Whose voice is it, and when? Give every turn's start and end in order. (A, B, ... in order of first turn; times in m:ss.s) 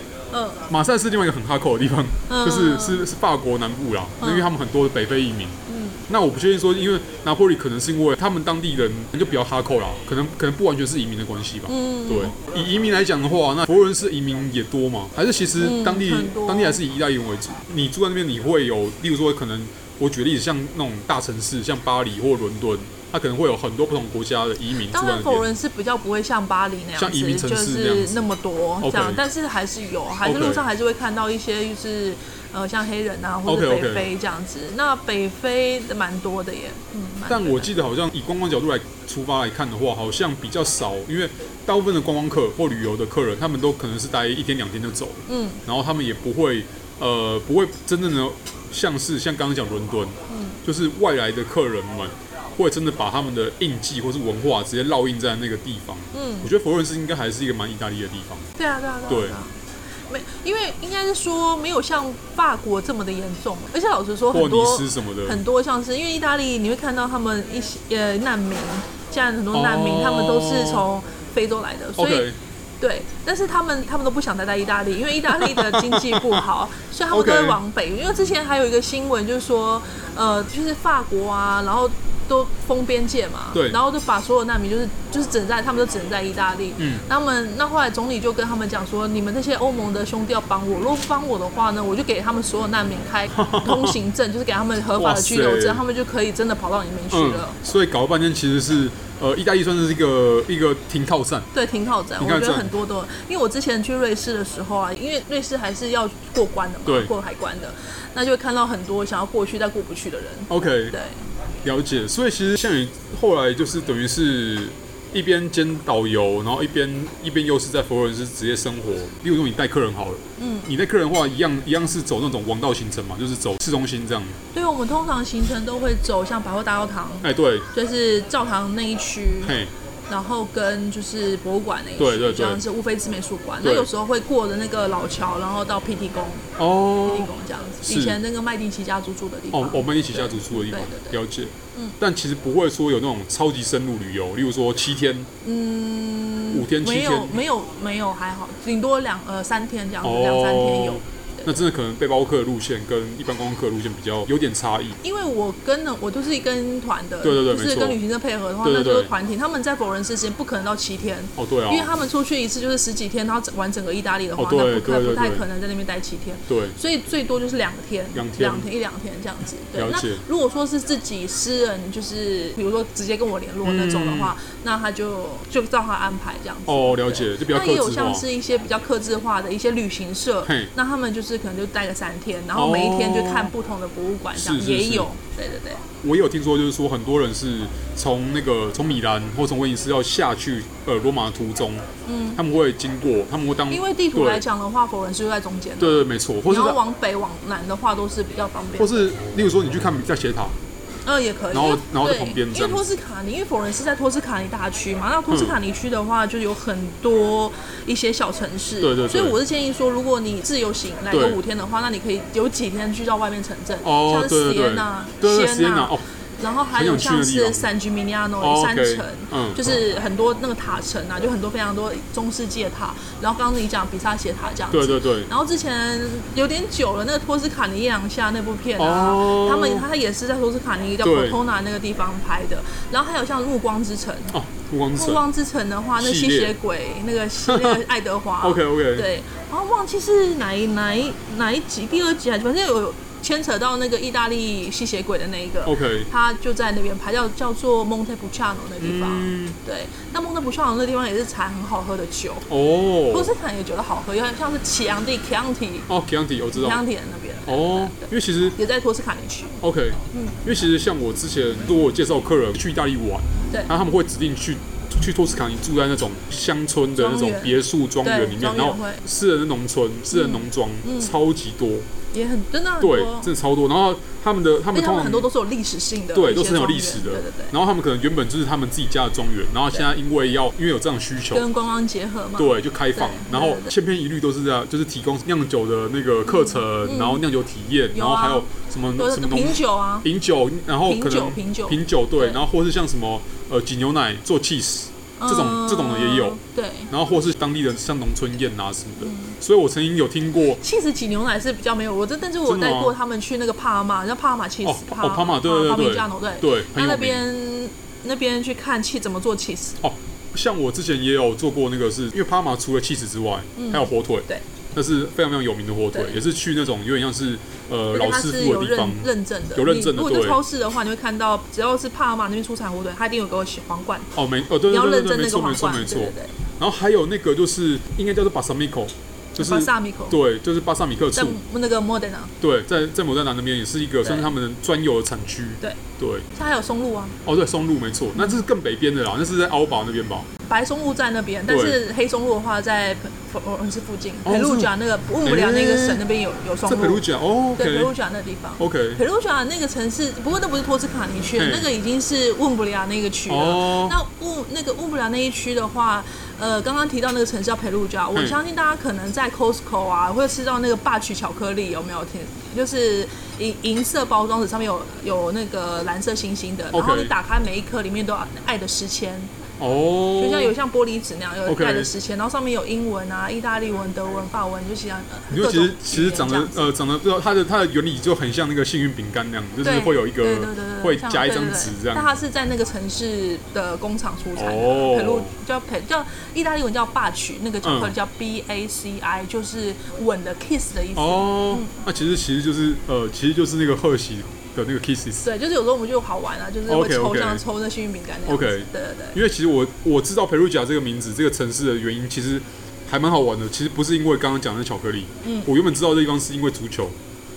0:00.3-0:00.6 A
0:00.7-0:05.6 B
0:02.3-0:03.1 A
0:04.2-0:04.5 A
0:05.7-0:06.0 A
0:06.1-0:25.5 B
0:11.7-0:12.4 A
0:15.6-0:16.8 A
0:24.8-0:37.8 A
0:27.0-0:28.2 B
0:28.8-0:29.2 B
0:30.2-0:30.6 B
0:33.4-0:34.1 B
0:37.3-0:58.5 B
0:45.3-0:45.6 A
0:50.3-0:50.6 A
0:56.1-0:56.5 A
0:58.6-1:37.6 A
0:59.1-0:59.4 B
1:04.3-1:05.4 B
1:09.5-1:10.8 B
1:12.0-1:12.4 B
1:15.3-1:16.4 B
1:17.1-1:17.6 B
1:26.8-1:27.0 B
1:33.3-1:34.0 B
1:35.0-1:35.8 B
1:37.1-1:41.5 B
1:41.5-1:51.2 A
1:42.2-1:42.7 B
1:46.8-1:47.1 B
1:50.5-1:51.0 B
1:51.6-2:04.4 B
2:00.4-2:00.7 A
2:04.5-2:09.5 A
2:07.2-2:07.7 B
2:09.4-2:09.7 B
2:10.1-2:16.5 A
2:12.0-2:12.6 B
2:13.6-2:13.9 B
2:16.6-2:18.2 B
2:17.0-2:21.2 A
2:19.5-2:25.3 B
2:25.4-2:31.5 A
2:26.5-2:27.4 B
2:30.0-2:35.0 B
2:35.0-3:05.8 A
2:37.2-2:38.0 B
2:38.6-2:39.1 B
2:41.4-2:41.9 B
2:44.4-2:45.4 B
2:46.5-2:46.8 B
2:48.1-2:48.7 B
2:49.7-2:50.2 B
2:53.6-2:54.3 B
2:56.7-2:58.2 B
3:00.4-3:00.7 B
3:02.5-3:03.5 B
3:04.3-3:05.1 B
3:06.0-3:11.8 B
3:12.0-3:12.4 A
3:12.4-3:14.4 B
3:13.7-3:19.0 A
3:15.8-3:16.8 B
3:18.8-3:20.5 B
3:21.0-3:54.4 A
3:21.5-3:22.8 B
3:25.3-3:25.6 B
3:28.8-3:29.4 B
3:31.1-3:31.4 B
3:33.8-3:36.0 B
3:36.7-3:37.7 B
3:38.4-3:39.8 B
3:44.7-3:45.3 B
3:48.8-3:49.8 B
3:51.0-3:51.4 B
3:54.3-3:55.2 B
3:55.0-4:12.5 A
3:56.0-3:56.6 B
3:57.5-3:57.8 B
3:58.4-3:59.1 B
4:05.6-4:06.1 B
4:08.8-4:09.6 B
4:12.5-4:13.3 B
4:13.1-4:15.9 A
4:15.9-4:16.8 B
4:16.5-4:19.6 A
4:17.5-4:18.6 B
4:19.6-4:31.9 B
4:20.1-4:20.4 A
4:26.9-4:29.0 A
4:30.1-4:31.1 A
4:32.1-4:33.3 A
4:32.8-4:35.3 B
4:34.7-4:37.5 A
4:36.1-4:41.4 B
4:41.3-4:43.7 A
4:42.4-5:00.6 B
4:46.2-4:47.2 A
4:47.9-4:50.1 A
4:50.8-4:52.4 A
4:55.2-4:56.9 A
4:59.0-4:59.4 A
5:00.6-5:09.8 A
5:02.4-5:02.9 B
5:04.6-5:07.2 B
5:09.8-5:20.4 B
5:13.6-5:14.4 A
5:17.9-5:26.4 A
5:24.1-5:31.4 B
5:29.4-5:30.2 A
5:31.1-5:32.3 A
5:32.4-5:36.3 B
5:34.0-5:34.3 A
5:36.3-5:37.2 A
5:37.2-5:40.3 B
5:38.2-5:38.4 A
5:40.4-5:47.0 A
5:41.5-5:41.8 B
5:44.2-5:46.0 B
5:46.7-5:47.9 B
5:47.6-6:09.3 A
5:48.6-5:49.0 B
5:51.4-5:51.7 B
5:53.3-5:54.0 B
5:58.1-5:58.4 B
6:06.7-6:07.1 B
6:09.6-6:10.5 B
6:10.1-6:16.7 A
6:11.4-6:11.9 B
6:15.3-6:22.1 B
6:19.6-6:31.8 A
6:24.4-6:25.3 B
6:27.6-6:27.9 B
6:30.9-6:35.3 B
6:35.2-6:39.2 A
6:36.7-6:37.4 B
6:38.2-6:47.0 B
6:45.2-6:45.5 A